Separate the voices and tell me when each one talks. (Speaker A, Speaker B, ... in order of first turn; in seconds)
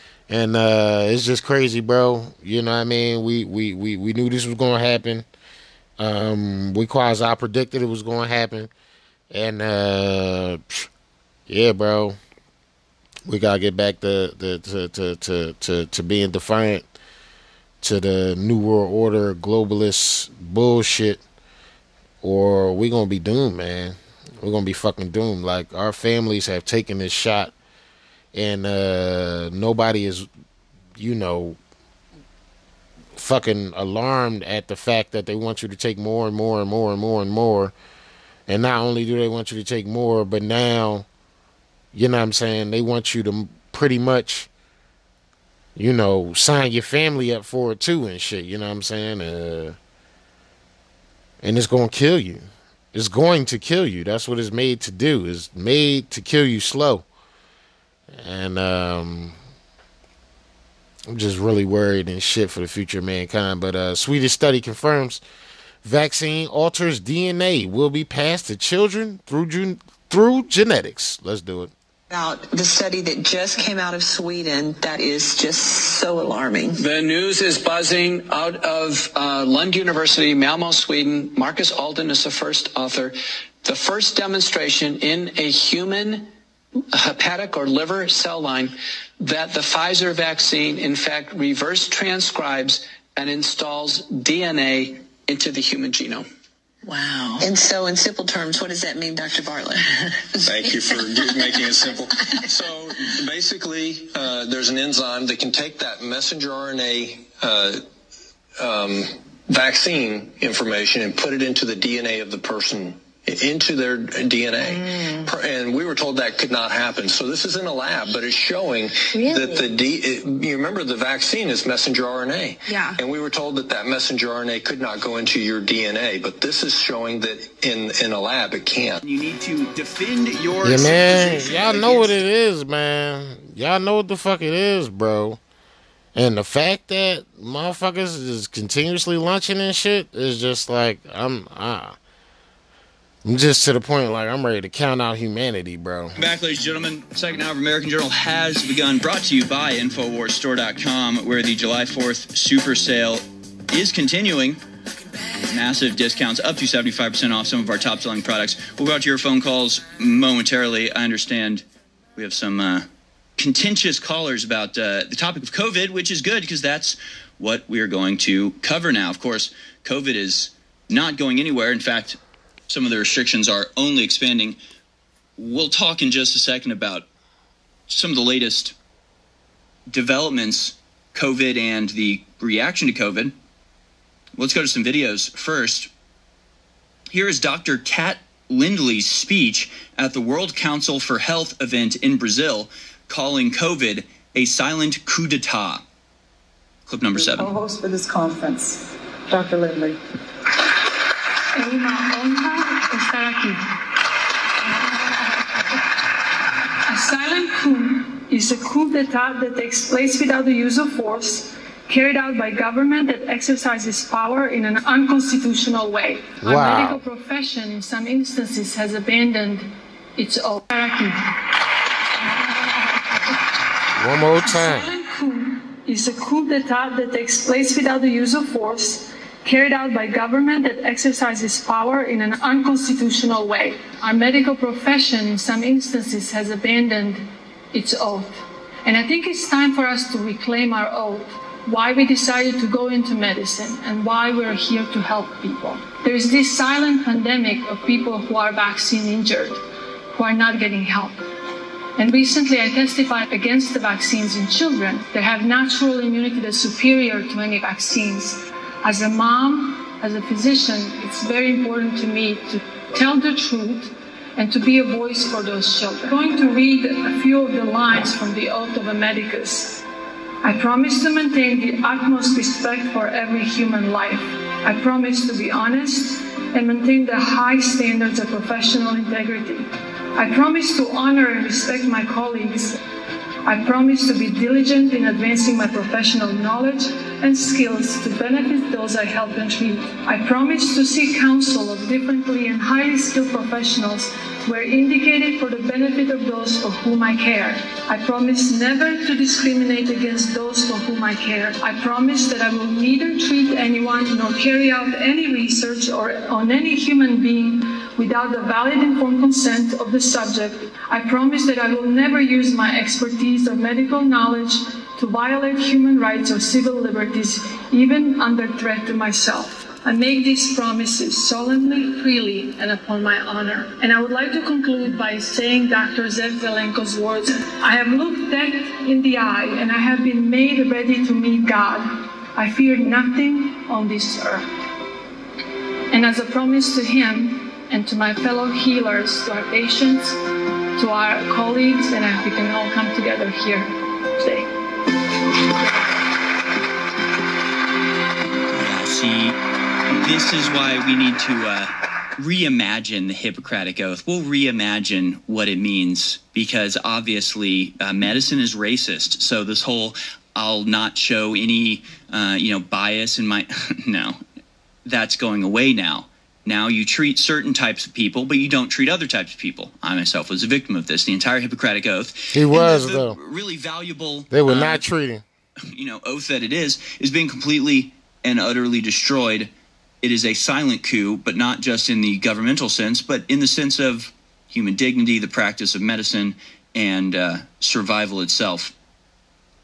Speaker A: 0.3-5.2, 6.0-8.7, 9.3-10.9, 11.5-12.2, 13.2-16.9, 17.8-21.2, 22.2-27.5, 28.3-30.3, 31.0-31.6, 33.1-37.7, 38.5-41.0, 41.9-44.5, 45.8-49.8, 51.4-57.0, 58.1-59.4, 61.1-65.2, 65.8-71.7, 130.6-135.4, 136.1-141.9, 143.2-146.1, 216.4-217.0, 224.0-224.9, 372.3-373.2, 374.3-375.2
Speaker B: 72.1-76.8, 96.8-101.5
Speaker C: 76.8-86.3, 86.9-96.3
Speaker D: 100.5-107.8, 108.6-129.0
Speaker E: 129.0-132.2, 146.2-154.6, 155.4-161.6, 162.2-174.6, 175.4-177.1, 177.9-178.7, 179.9-183.3, 184.3-185.9, 187.1-195.8, 196.9-197.5, 348.5-349.4, 350.0-364.2, 364.9-374.8, 375.7-379.5, 380.0-388.7
Speaker F: 201.6-203.7, 204.6-205.4, 206.9-221.4, 222.2-223.0, 224.4-249.6, 250.1-251.2, 252.0-269.8, 270.4-282.8, 283.4-334.4, 335.9-340.2, 340.8-344.5